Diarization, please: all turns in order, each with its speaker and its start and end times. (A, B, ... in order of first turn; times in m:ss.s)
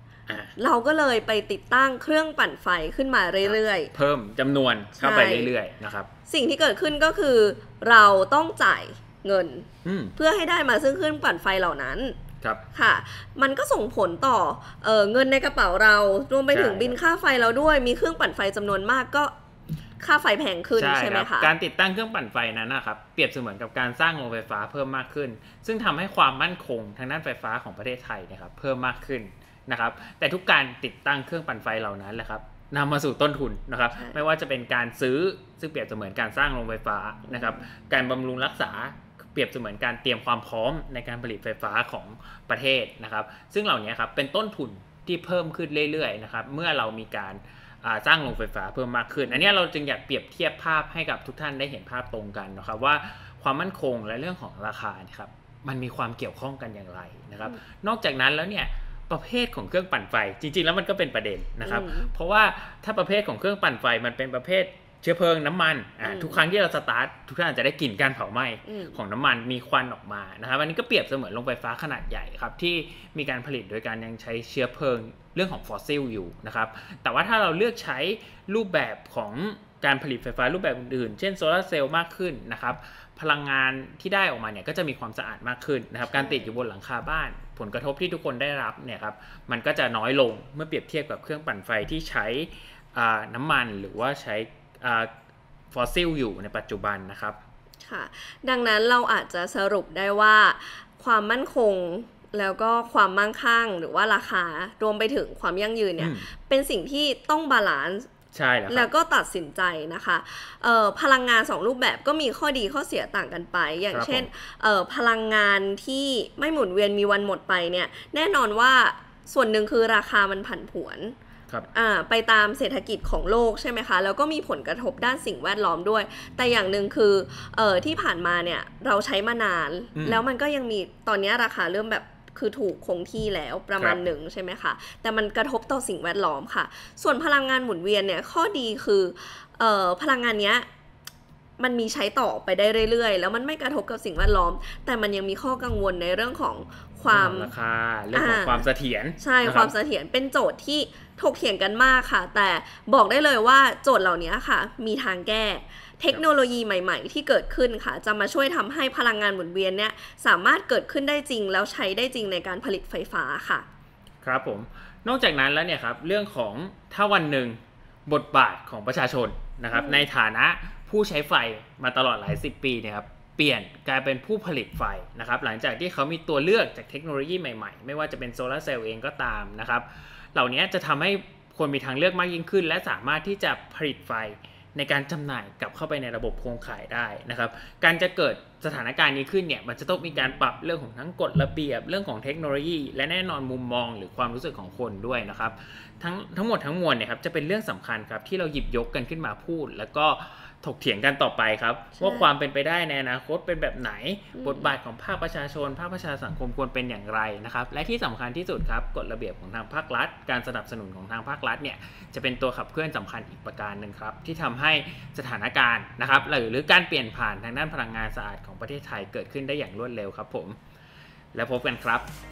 0:00.3-0:00.5 A
0:00.6-0:03.9 B
0:03.4-0:06.1 A
0:05.0-0:05.5 B
0:06.3-0:12.2 B
0:09.8-0:10.1 A
0:12.7-0:19.3 B
0:16.5-0:17.0 A
0:20.0-0:21.5 B
0:20.8-1:35.1 A
0:33.9-0:34.2 B
0:37.3-0:37.6 B
0:49.2-0:49.6 B
1:01.6-1:02.1 B
1:06.0-1:06.4 B
1:08.6-1:09.0 B
1:26.1-1:26.5 B
1:35.7-1:37.4 A
1:37.8-1:48.1 B
1:46.0-1:46.3 A
1:48.3-1:48.9 A
1:48.7-2:01.2 B
1:53.9-1:54.3 A
2:01.7-2:20.7 B
2:09.9-2:10.2 A
2:13.8-2:14.0 A
2:21.6-2:27.5 B
2:27.1-2:29.7 A
2:28.1-2:28.7 B
2:29.2-2:43.6 B
2:44.2-3:40.6 A
2:49.7-2:50.1 B
3:22.0-3:22.3 B
3:24.3-3:24.7 B
3:41.3-3:42.1 A